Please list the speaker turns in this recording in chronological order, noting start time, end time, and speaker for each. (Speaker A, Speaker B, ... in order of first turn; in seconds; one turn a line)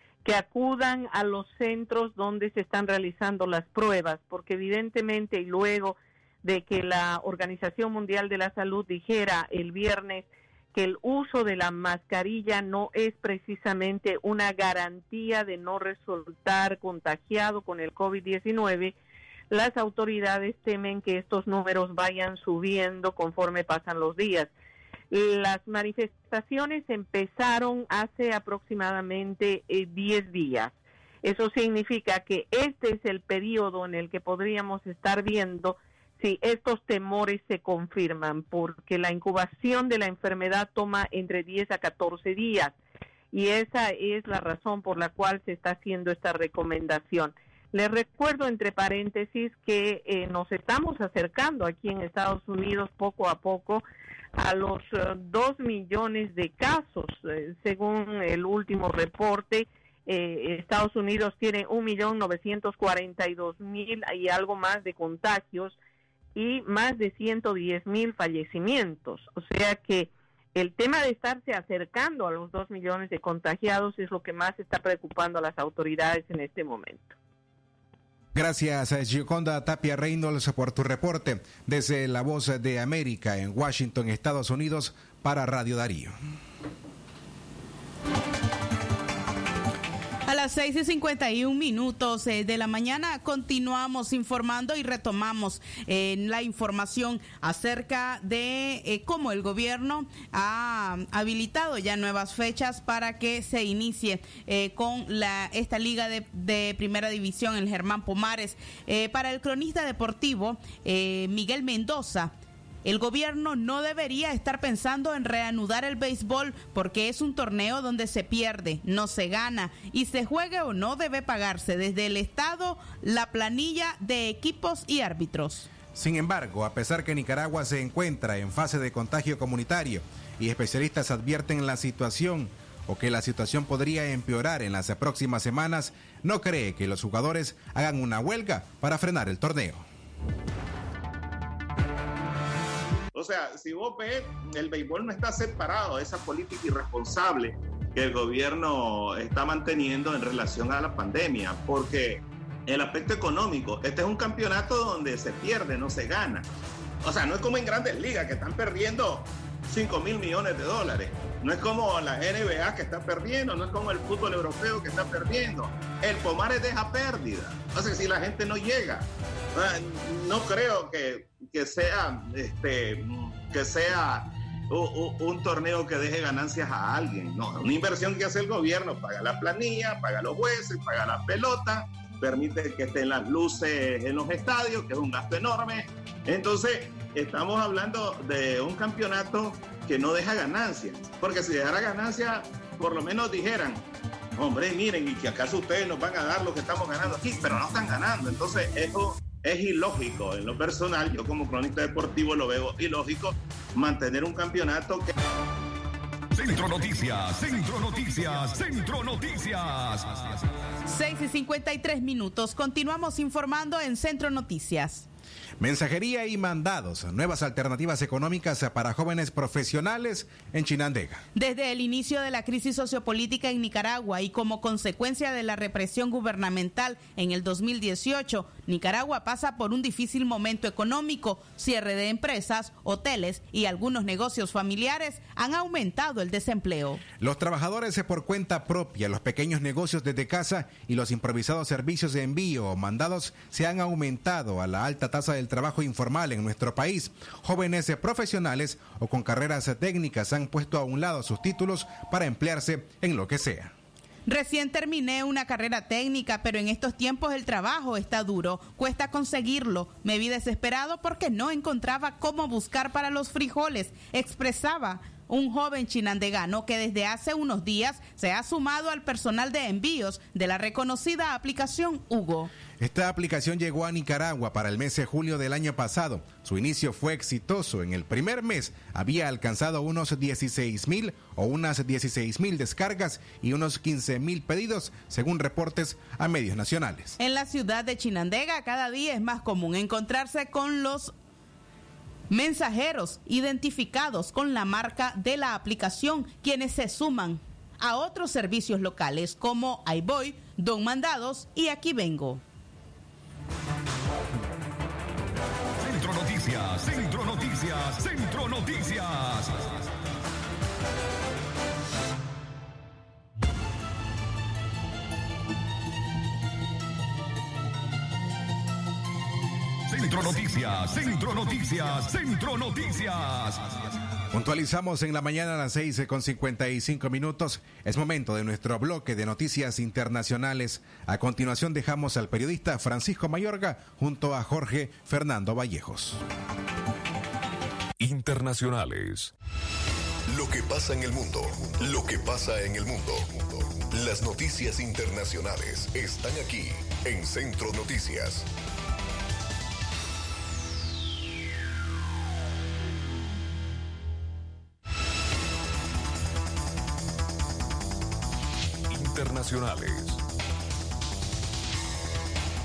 Speaker A: 0.2-18.9
Speaker A: 19.5-24.5
Speaker A: 25.1-42.8
Speaker A: 43.3-53.8
Speaker A: 54.4-65.8
Speaker A: 66.3-77.1
Speaker B: 78.3-86.2
Speaker C: 90.3-112.3
Speaker C: 112.8-125.7
Speaker B: 125.9-139.8
Speaker D: 143.1-156.5
Speaker D: 157.0-193.8
Speaker D: 194.4-205.1
Speaker E: 206.3-210.4
Speaker C: 210.8-215.1
Speaker B: 215.6-221.2
Speaker C: 221.3-237.0
Speaker B: 237.2-253.7
Speaker C: 254.2-272.5
Speaker B: 272.8-287.2
Speaker C: 287.2-291.1
Speaker C: 292.3-302.4
Speaker E: 305.8-309.7
Speaker E: 319.9-323.7
Speaker B: 324.3-336.2
Speaker F: 338.0-339.3
Speaker F: 340.3-348.5
Speaker F: 358.9-360.2